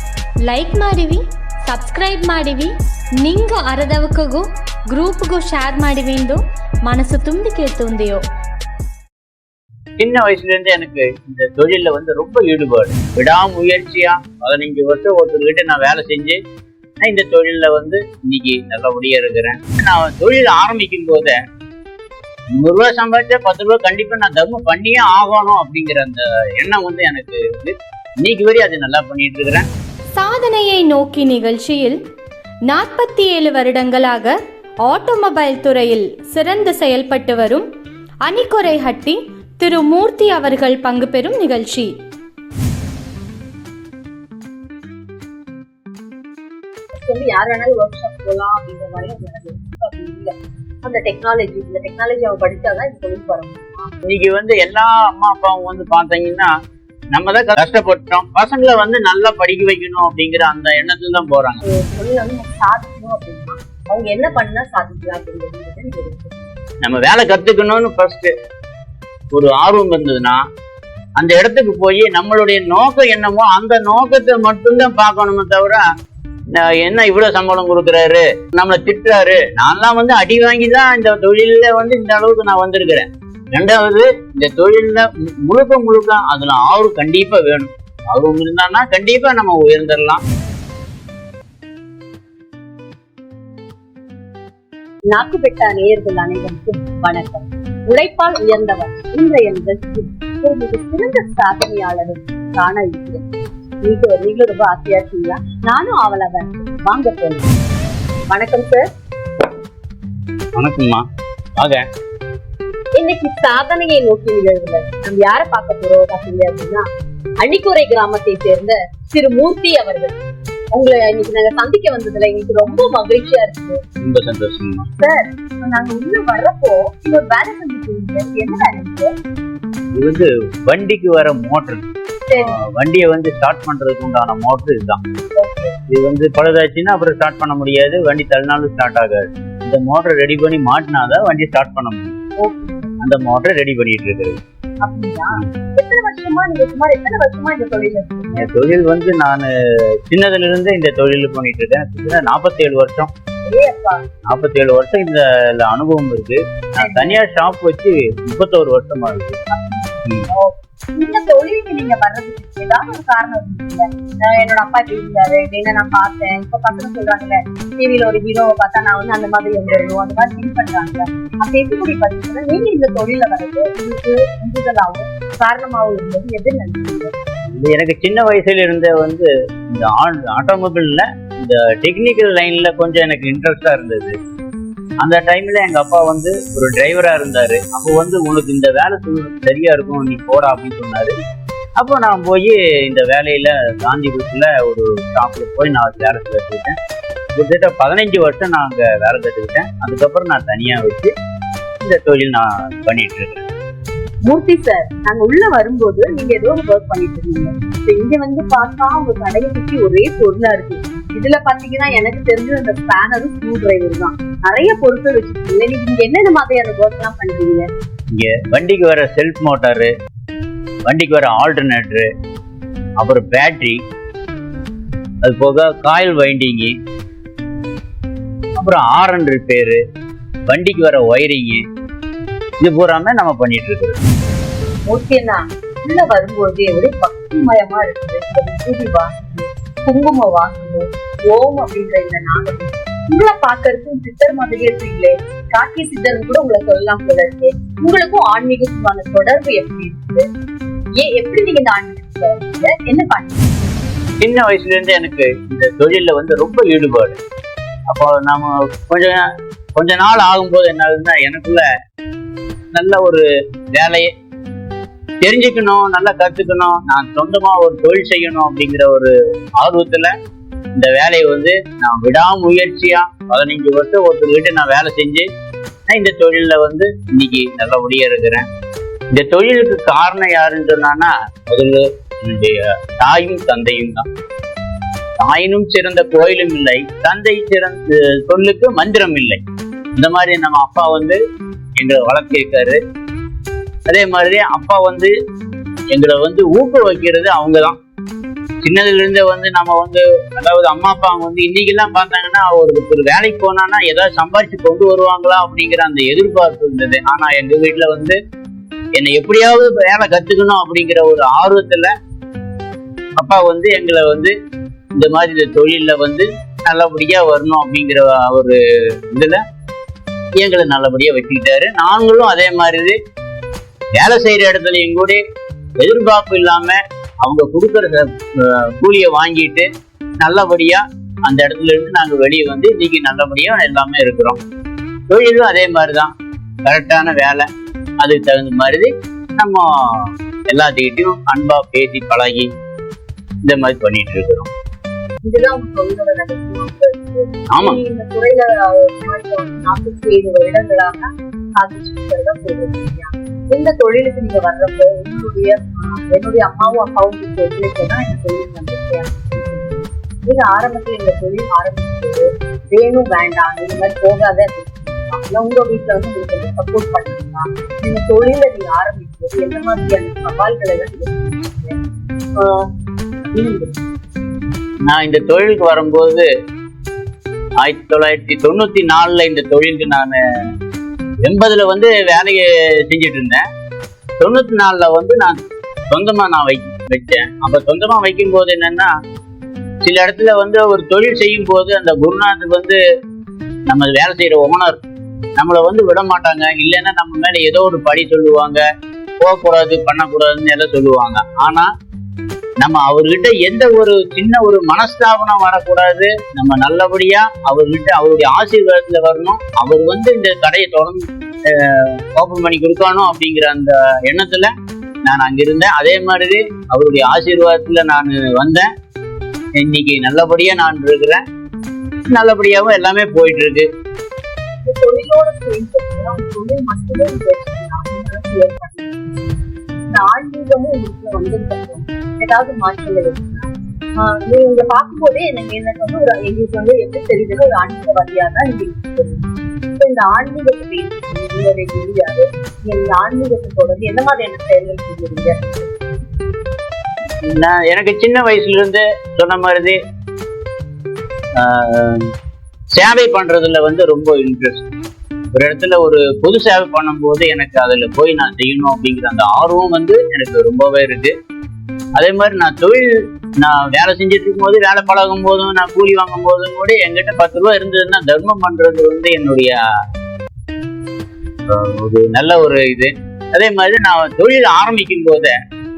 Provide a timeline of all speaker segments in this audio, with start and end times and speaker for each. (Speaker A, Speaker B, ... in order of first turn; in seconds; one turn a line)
Speaker A: 0.5-2.7
Speaker A: 3.2-8.2
Speaker B: 10.0-16.4
Speaker B: 17.0-21.4
Speaker B: 22.6-29.7
Speaker A: 30.1-32.0
Speaker A: 32.7-37.7
Speaker A: 38.2-41.9
Speaker C: 47.0-53.9
Speaker B: 54.1-56.5
Speaker B: 57.1-61.6
Speaker C: 61.6-66.6
Speaker B: 66.8-68.3
Speaker B: 69.3-70.4
Speaker B: 71.2-75.8
Speaker B: 76.5-90.2
Speaker C: 95.1-103.3
Speaker C: 103.8-107.6
Speaker C: 108.3-108.9
Speaker B: 110.6-111.0
Speaker B: 111.6-111.8
Speaker C: 113.0-116.9
Speaker C: 117.4-120.2
Speaker C: 120.7-123.8
Speaker B: 124.0-124.9
Speaker C: 125.0-129.1
Speaker B: 129.9-135.0
Speaker C: 132.3-132.6
Speaker C: 135.3-135.8
Speaker B: 135.9-142.2
Speaker C: 142.4-142.9
Speaker B: 143.0-144.4
Speaker C: 144.8-148.5
Speaker B: 148.3-149.5
Speaker B: 150.1-153.1
Speaker C: 153.4-154.0
Speaker B: 154.2-159.4
Speaker C: 156.8-157.2
Speaker C: 159.5-177.2
Speaker B: 177.5-184.2
Speaker B: 185.0-191.1
Speaker B: 191.8-196.8
Speaker B: 197.4-201.1
Speaker B: 201.8-203.5
Speaker C: 204.2-217.7
Speaker B: 218.1-219.9
Speaker B: 220.8-222.1
Speaker B: 223.0-223.8
Speaker B: 225.2-226.7
Speaker B: 228.6-229.8
Speaker B: 230.5-231.6
Speaker B: 232.6-234.0
Speaker C: 234.9-250.3
Speaker C: 251.0-253.7
Speaker B: 254.2-257.2
Speaker B: 257.9-259.2
Speaker B: 259.8-261.7
Speaker B: 262.7-264.1
Speaker B: 265.2-270.1
Speaker B: 270.8-275.3
Speaker B: 275.9-278.4
Speaker B: 279.1-284.1
Speaker B: 285.2-289.4
Speaker B: 290.0-291.2
Speaker B: 291.8-292.8
Speaker B: 293.9-295.1
Speaker B: 295.9-297.8
Speaker B: 298.6-308.2
Speaker B: 309.0-311.9
Speaker B: 313.2-314.3
Speaker B: 314.9-318.6
Speaker B: 319.1-319.4
Speaker B: 320.4-323.0
Speaker B: 324.0-325.2
Speaker B: 325.8-329.7
Speaker B: 330.2-334.4
Speaker B: 335.1-336.1
Speaker B: 336.6-337.5
Speaker B: 338.0-342.5
Speaker B: 343.4-344.5
Speaker C: 345.2-371.8
Speaker B: 347.5-347.8
Speaker C: 372.4-372.7
Speaker C: 373.3-373.8
Speaker B: 374.9-376.3
Speaker B: 377.6-380.2
Speaker B: 381.2-383.4
Speaker B: 384.2-385.4
Speaker B: 385.9-388.9
Speaker B: 389.8-392.8
Speaker B: 393.7-394.8
Speaker B: 395.4-398.6
Speaker B: 399.2-401.7
Speaker B: 402.6-414.5
Speaker B: 415.0-418.7
Speaker B: 419.6-421.2
Speaker B: 422.1-423.7
Speaker C: 424.6-429.3
Speaker C: 429.9-445.8
Speaker B: 447.2-449.8
Speaker B: 451.4-452.1
Speaker B: 452.7-454.7
Speaker B: 455.3-461.1
Speaker B: 462.0-462.9
Speaker B: 463.4-469.6
Speaker B: 471.5-475.4